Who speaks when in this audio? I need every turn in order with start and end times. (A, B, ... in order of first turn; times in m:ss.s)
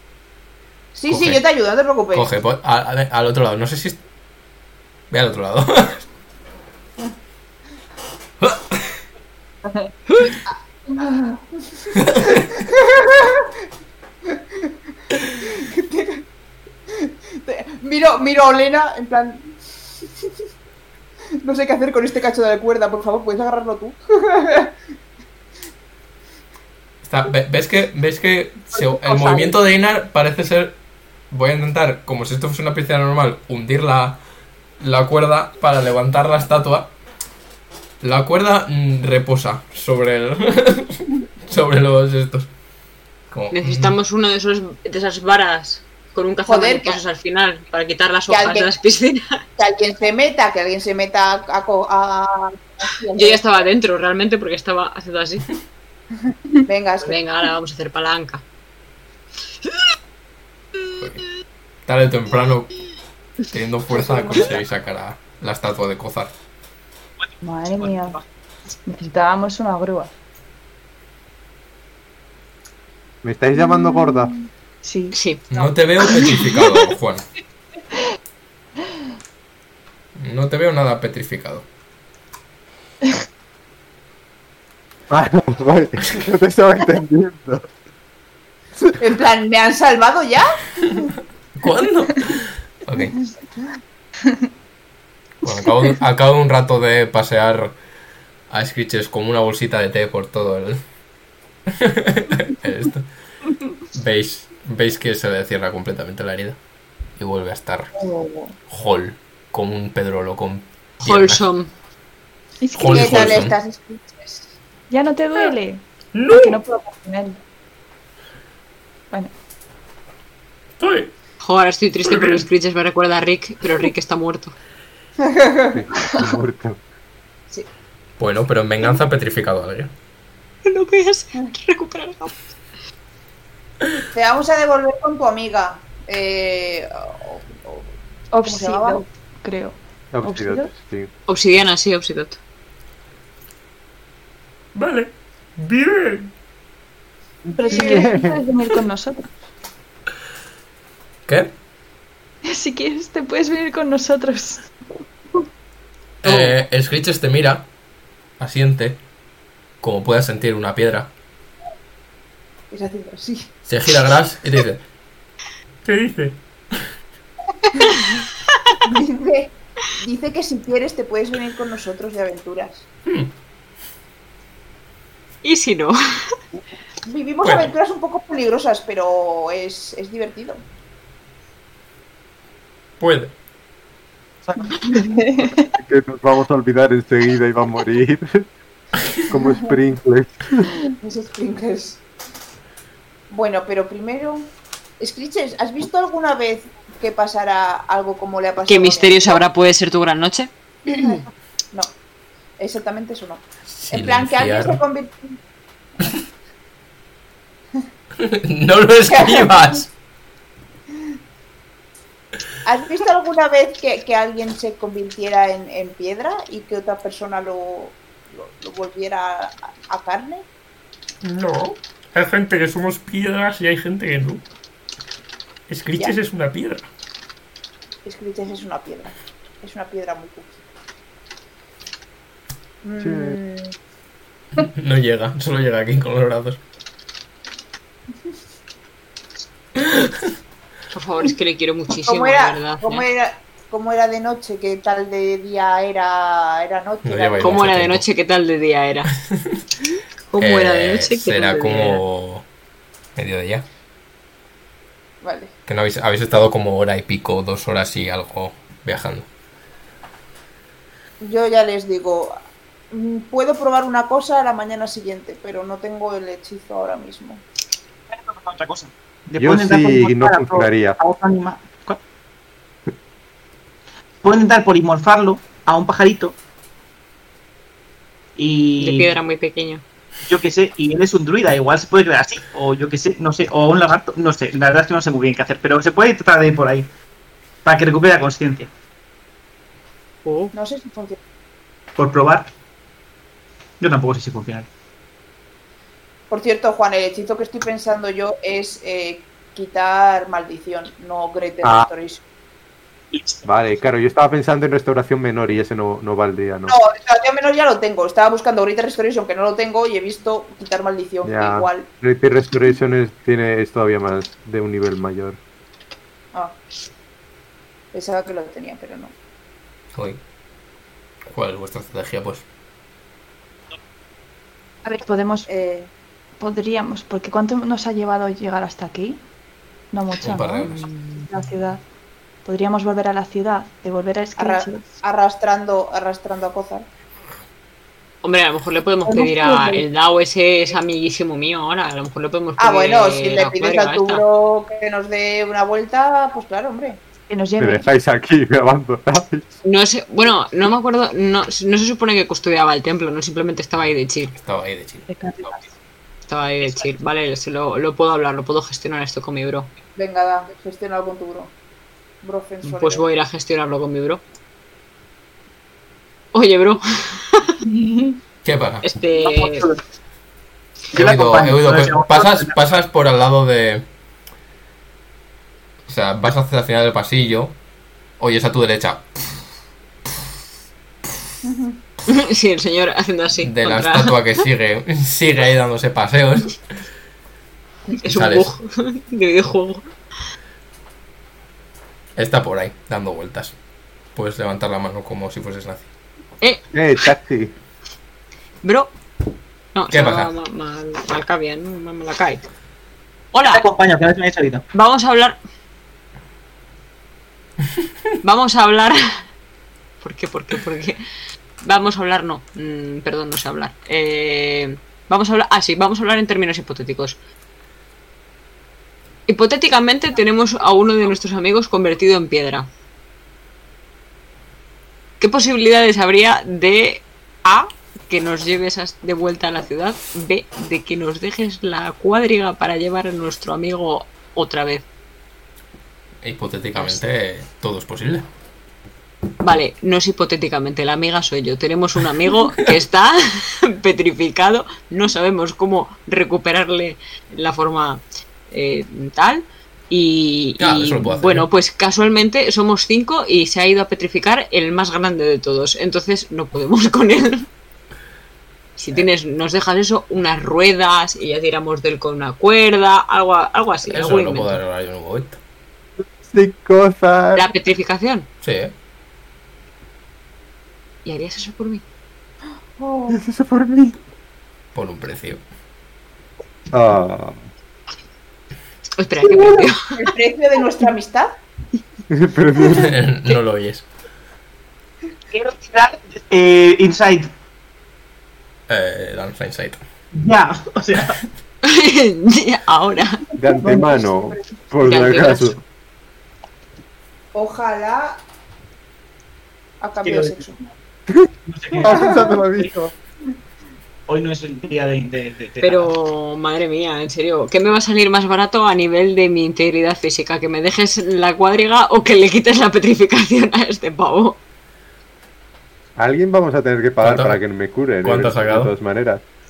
0:01.0-0:02.3 A
0:01.1-0:01.4 B
0:02.1-0:04.0 B
0:05.1-0:06.1 B
0:08.4-0:09.0 B
0:10.5-0:13.5 A
0:12.0-0:12.4 B
0:15.3-0:16.2 A
0:16.9-0:19.6 A
0:21.4-0:24.7 A
0:27.0-0:30.8 B
0:28.7-0:29.5 A
0:31.3-0:34.2 B
0:34.8-0:36.9 B
0:38.0-0:42.5 B
0:43.3-0:44.0 B
0:43.5-0:49.4 C
0:46.5-0:47.0 A
0:48.3-0:48.7 A
0:49.6-0:53.6 A
0:53.1-0:55.5 C
0:56.7-0:57.2 A
0:57.0-0:58.4 C
1:01.9-1:02.7 B
1:03.5-1:06.3 B
1:04.0-1:04.5 A
1:07.2-1:08.2 D
1:07.4-1:08.2 E
1:08.9-1:10.1 E
1:13.2-1:14.3 F
1:13.6-1:16.4 E
1:15.1-1:15.4 C
1:15.5-1:17.2 B
1:16.0-1:16.8 C
1:20.2-1:21.7 B
1:25.1-1:27.7 F
1:29.0-1:31.0 A
1:31.6-1:33.1 B
1:35.4-1:37.8 B
1:38.5-1:40.8 B
1:41.8-1:43.1 B
1:43.9-1:46.6 B
1:47.2-1:47.9 B
1:48.7-1:51.4 B
1:51.0-1:51.7 C
1:52.6-1:53.5 E
1:52.7-1:53.6 B
1:52.9-1:54.5 A
1:54.9-1:55.8 E
1:56.1-1:56.6 G
1:56.4-1:57.4 E
2:00.8-2:01.1 G
2:01.4-2:04.6 C
2:02.0-2:02.4 G
2:05.2-2:05.8 A
2:05.7-2:06.8 F
2:08.2-2:09.9 B
2:10.6-2:12.4 C
2:14.1-2:17.9 A
2:18.3-2:20.7 E
2:18.4-2:19.0 A
2:20.1-2:21.1 F
2:21.3-2:22.4 C
2:24.8-2:26.3 G
2:27.4-2:28.4 F
2:27.6-2:29.3 E
2:27.7-2:28.1 A
2:31.3-2:31.5 B
2:32.5-2:34.7 E
2:36.2-2:37.7 B
2:38.4-2:39.0 B
2:39.8-2:41.1 B
2:42.7-2:43.5 A
2:43.7-2:44.8 B
2:45.8-2:46.4 G
2:48.8-2:52.9 A
2:55.4-2:56.0 C
2:57.0-3:00.6 A
2:57.4-2:57.7 B
3:03.0-3:03.4 B
3:04.5-3:04.8 F
3:04.8-3:05.7 E
3:05.6-3:08.5 F
3:09.3-3:10.7 F
3:11.0-3:12.0 A
3:13.3-3:19.4 A
3:18.7-3:21.1 C
3:20.9-3:21.9 A
3:22.6-3:25.4 A
3:23.7-3:24.8 B
3:28.2-3:29.9 B
3:29.1-3:29.7 A
3:32.6-3:40.5 A
3:41.2-3:44.4 G
3:45.7-3:46.9 G
3:48.0-3:50.6 A
3:52.8-3:53.7 A
3:53.0-3:53.4 F
3:54.6-3:56.6 B
3:59.8-4:00.1 B
4:00.9-4:03.0 C
4:02.0-4:07.7 A
4:07.0-4:08.0 B
4:07.4-4:09.1 C
4:09.2-4:09.6 B
4:10.3-4:12.0 C
4:10.4-4:12.4 B
4:13.2-4:13.7 B
4:15.2-4:15.5 A
4:15.7-4:19.3 B
4:21.2-4:22.4 A
4:22.9-4:27.4 A
4:28.1-4:32.0 D
4:29.4-4:31.0 F
4:34.2-4:36.4 D
4:38.4-4:39.2 D
4:38.8-4:39.8 C
4:40.2-4:46.9 D
4:47.6-4:48.7 D
4:50.2-4:50.5 C
4:50.5-4:51.2 A
4:52.0-4:52.5 D
4:53.8-4:54.7 D
4:56.3-5:02.2 A
5:01.6-5:01.9 F
5:03.1-5:03.5 D
5:03.5-5:06.8 F
5:06.7-5:11.9 A
5:11.2-5:15.4 F
5:17.9-5:19.1 A
5:19.9-5:20.2 B
5:21.3-5:22.4 B
5:24.8-5:25.5 E
5:25.5-5:25.9 A
5:26.4-5:29.2 E
5:29.9-5:30.7 E
5:30.2-5:30.8 B
5:30.6-5:31.3 C
5:31.2-5:31.8 E
5:32.4-5:34.9 E
5:34.4-5:36.9 A
5:38.2-5:44.2 C
5:39.1-5:39.8 E
5:42.6-5:47.0 A
5:47.3-5:47.9 E
5:47.6-5:49.4 F
5:49.6-5:54.4 C
5:54.4-5:55.5 B
5:55.1-5:55.6 E
5:56.3-5:59.7 C
6:00.0-6:01.5 A
6:02.2-6:03.0 A
6:02.6-6:04.2 C
6:06.3-6:07.5 C
6:07.6-6:08.2 E
6:08.4-6:08.9 B
6:08.8-6:09.7 C
6:09.2-6:09.8 D
6:10.9-6:12.6 D
6:10.9-6:13.8 B
6:15.9-6:17.6 B
6:18.2-6:19.1 B
6:21.4-6:21.8 A
6:22.1-6:24.4 C
6:23.4-6:26.6 B
6:28.0-6:29.9 C
6:28.1-6:28.5 B
6:32.2-6:33.6 B
6:34.2-6:35.9 B
6:36.4-6:37.0 C
6:36.7-6:37.5 F
6:38.6-6:38.9 C
6:39.7-6:42.5 C
6:39.9-6:40.3 B
6:43.3-6:43.7 C
6:43.4-6:44.6 D
6:44.7-6:45.4 C
6:48.2-6:49.2 C
6:50.0-6:51.0 C
6:51.6-6:57.2 C
6:59.3-7:02.7 C
7:05.2-7:14.8 C
7:16.2-7:18.3 B
7:19.4-7:37.5 C
7:30.6-7:31.5 B
7:38.8-7:44.6 C
7:43.9-7:45.4 B
7:46.1-7:47.5 F
7:47.4-7:48.3 C
7:48.4-7:48.7 B
7:51.0-7:51.8 C
7:52.8-7:53.2 A
7:53.1-7:54.0 F
7:54.8-7:55.4 B
7:56.7-7:57.5 F
7:59.0-7:59.9 C
8:00.0-8:01.3 A
8:02.1-8:03.0 F
8:02.7-8:03.8 B
8:05.3-8:07.3 D
8:08.7-8:09.8 B
8:10.1-8:11.2 D
8:11.6-8:13.2 C
8:13.4-8:15.6 F
8:13.6-8:14.4 A
8:14.8-8:15.6 C
8:17.3-8:18.2 A
8:19.8-8:20.6 A
8:20.0-8:20.4 D
8:21.1-8:22.9 F
8:21.5-8:22.7 D
8:21.8-8:22.4 A
8:24.1-8:25.9 D
8:25.6-8:34.4 C
8:36.0-8:39.2 F
8:37.0-8:37.4 B
8:38.0-8:38.7 B